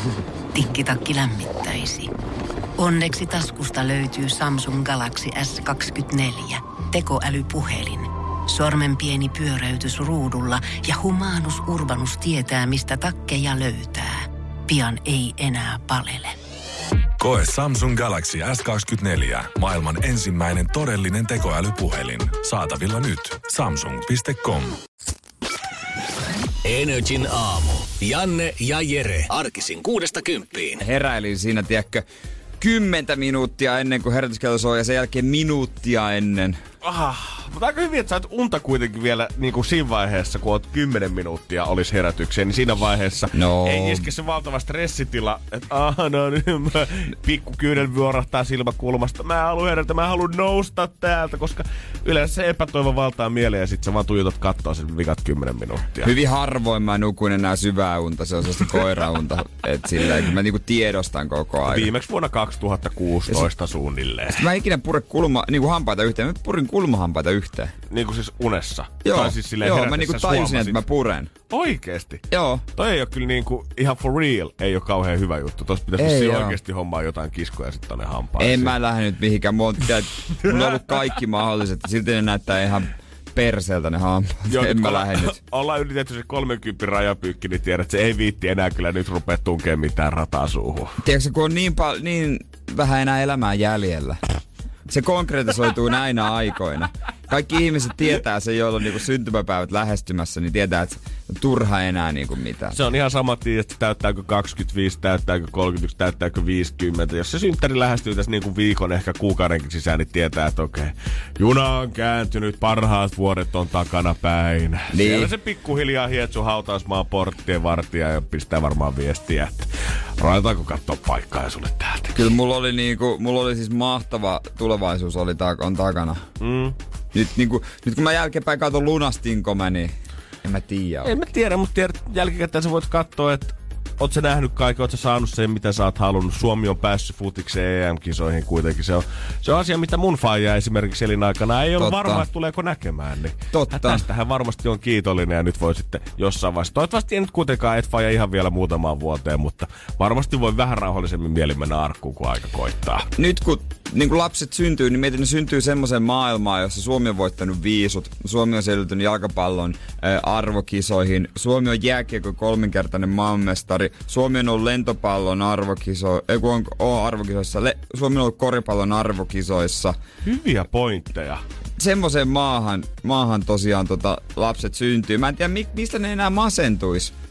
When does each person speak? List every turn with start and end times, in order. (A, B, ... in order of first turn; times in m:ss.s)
0:00.5-0:02.1 A
0:02.8-0:16.4 A
0:17.2-0:24.7 B
0:26.6-0:30.8 C
0:30.8-0:32.0 D
0:32.6-0:36.6 D
0:36.8-0:56.2 E
0:43.3-0:44.1 D
0:56.0-1:01.9 D
1:01.6-1:04.4 E
1:04.3-1:07.7 D
1:07.9-1:10.8 E
1:09.0-1:11.3 D
1:11.5-1:18.7 E
1:12.3-1:12.6 D
1:16.0-1:16.6 D
1:18.4-1:25.4 D
1:24.5-1:31.0 E
1:31.0-1:34.2 D
1:34.9-1:42.8 D
1:42.7-2:02.3 E
1:54.9-1:55.3 D
2:02.1-2:06.2 D
2:06.4-2:06.8 E
2:07.1-2:11.1 D
2:11.0-2:33.1 E
2:21.8-2:22.2 D
2:23.5-2:24.0 D
2:33.2-2:50.0 D
2:50.2-2:51.4 E
2:51.8-2:57.1 D